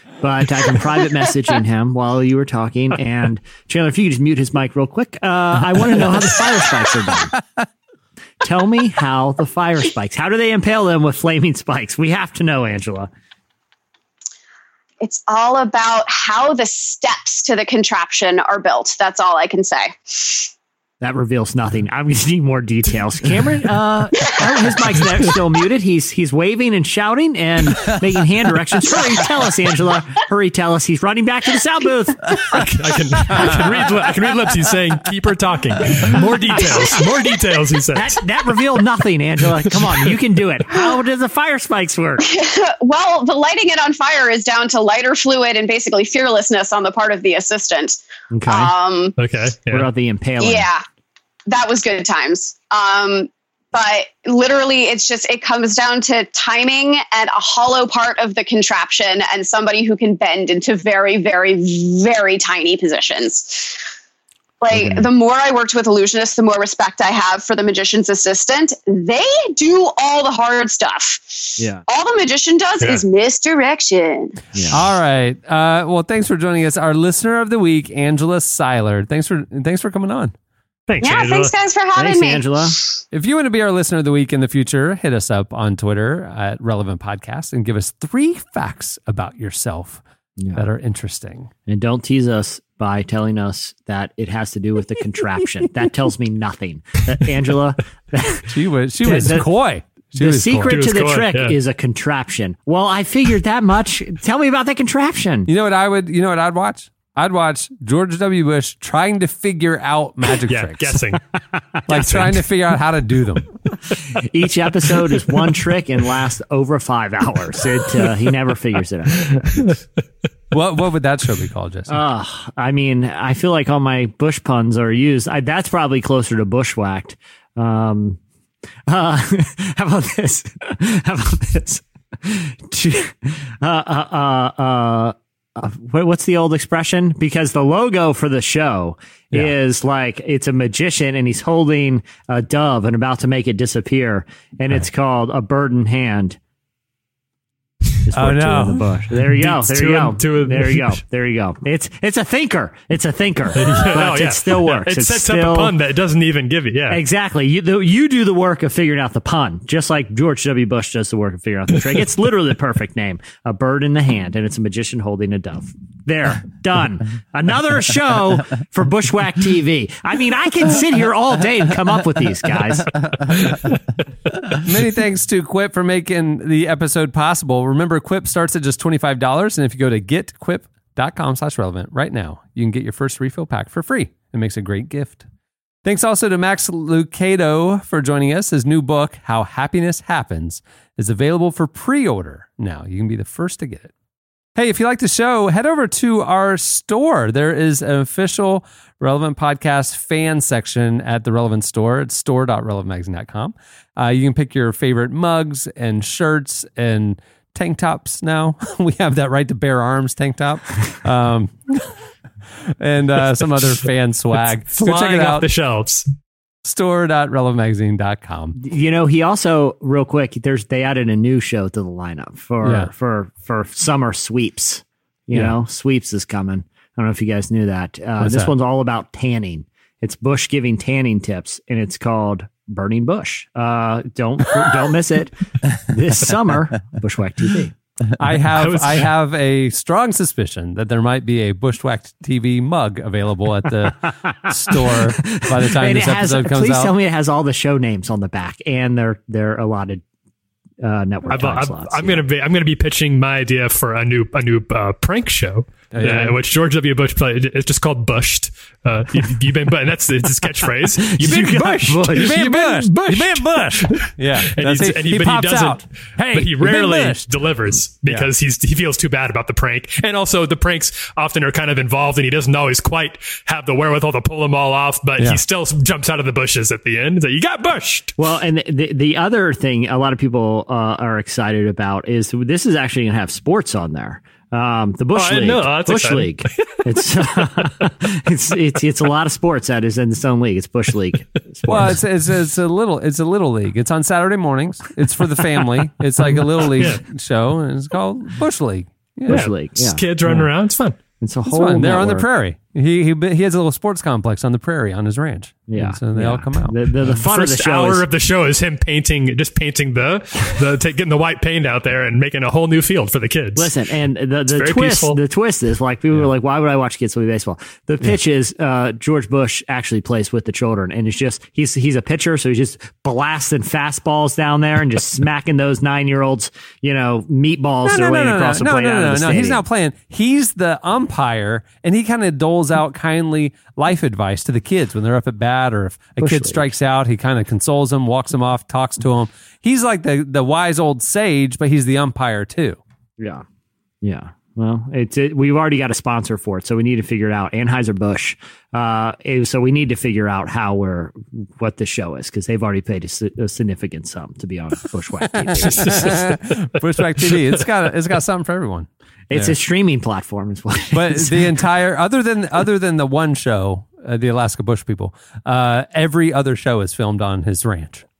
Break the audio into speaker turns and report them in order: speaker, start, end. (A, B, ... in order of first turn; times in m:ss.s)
0:00.2-0:07.4 A
0:08.4-0:13.1 A
0:15.0-0:20.5 B
0:21.0-0:32.6 A
0:32.5-0:38.2 C
0:36.5-0:37.0 A
0:36.6-0:37.3 B
0:37.9-0:42.3 A
0:42.2-0:49.1 B
0:48.3-0:48.7 A
0:49.2-0:49.9 C
0:49.7-0:50.7 A
0:50.4-0:50.8 B
0:51.5-1:03.8 B
1:04.6-1:14.4 B
1:04.7-1:05.1 A
1:11.6-1:11.8 A
1:14.5-1:14.9 A
1:14.7-1:20.3 D
1:20.9-1:21.5 C
1:21.0-1:22.7 B
1:21.9-1:22.8 A
1:23.1-1:30.0 D
1:30.4-1:30.7 A
1:30.5-1:31.5 D
1:31.7-1:38.4 A
1:38.5-1:40.8 D
1:39.0-1:39.5 A
1:40.1-1:45.5 A
1:40.6-1:41.6 C
1:45.5-1:51.0 D
1:50.5-1:51.2 C
1:51.9-1:52.4 C
1:51.9-1:53.5 D
1:54.1-1:59.6 A
1:59.3-1:59.8 C
2:00.5-2:02.0 D
2:01.9-2:08.2 A
2:08.9-2:26.4 A
2:28.0-2:35.7 A
2:28.1-2:29.0 D
2:29.2-2:31.0 C
2:33.6-2:37.0 C
2:36.9-2:53.0 A
2:54.6-3:05.2 D
3:05.8-3:13.9 D
3:14.6-3:31.9 D
3:32.7-3:35.4 D
3:34.8-3:36.0 C
3:36.6-3:38.6 D
3:38.6-3:57.7 A
3:42.6-3:42.9 D
3:48.2-3:48.5 D
3:58.2-4:06.9 D
3:58.5-3:59.1 C
4:04.3-4:10.0 A
4:10.8-4:12.2 A
4:11.3-4:38.1 C
4:15.9-4:16.4 D
4:21.1-4:22.4 A
4:22.2-4:27.3 D
4:38.2-4:51.9 A
4:45.1-4:46.8 C
4:47.4-4:47.8 C
4:51.7-4:59.5 D
4:56.7-4:57.0 C
4:59.3-5:00.4 A
4:59.3-5:01.0 C
5:01.2-5:02.3 A
5:01.5-5:06.8 D
5:05.7-5:08.0 A
5:07.0-5:13.8 C
5:13.5-5:29.6 A
5:14.5-5:15.2 C
5:27.8-5:42.8 D
5:36.2-5:36.6 A
5:43.2-5:43.4 A
5:44.0-5:56.2 A
5:55.5-5:59.6 D
5:59.3-6:01.5 A
6:00.9-6:08.0 D